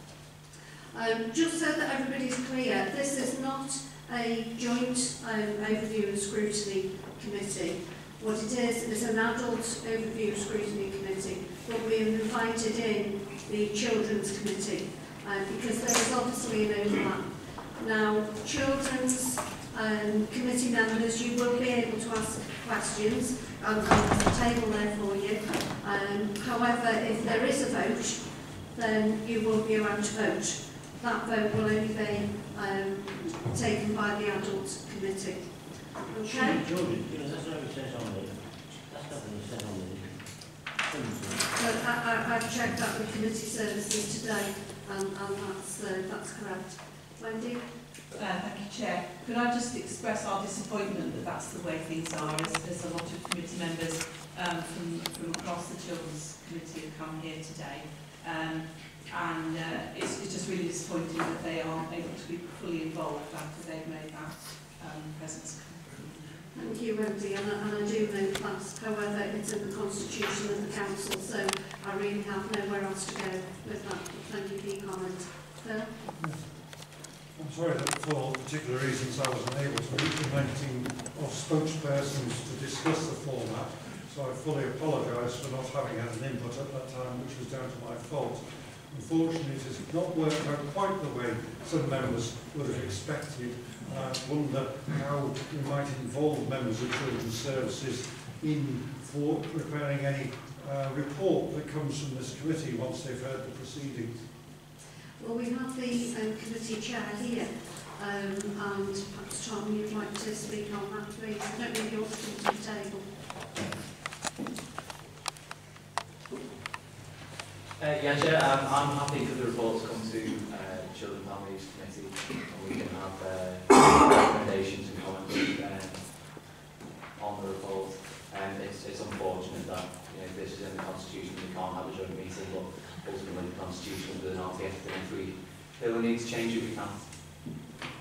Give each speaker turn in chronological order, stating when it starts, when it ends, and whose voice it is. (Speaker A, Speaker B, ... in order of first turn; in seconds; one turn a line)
Speaker A: 0.9-36.6
Speaker B: 36.2-41.5
Speaker A: 41.6-47.9
Speaker C: 48.1-66.4
Speaker A: 66.5-75.9
Speaker D: 76.0-104.3
Speaker A: 105.2-113.1
Speaker E: 117.8-126.5
Speaker E: 127.1-137.1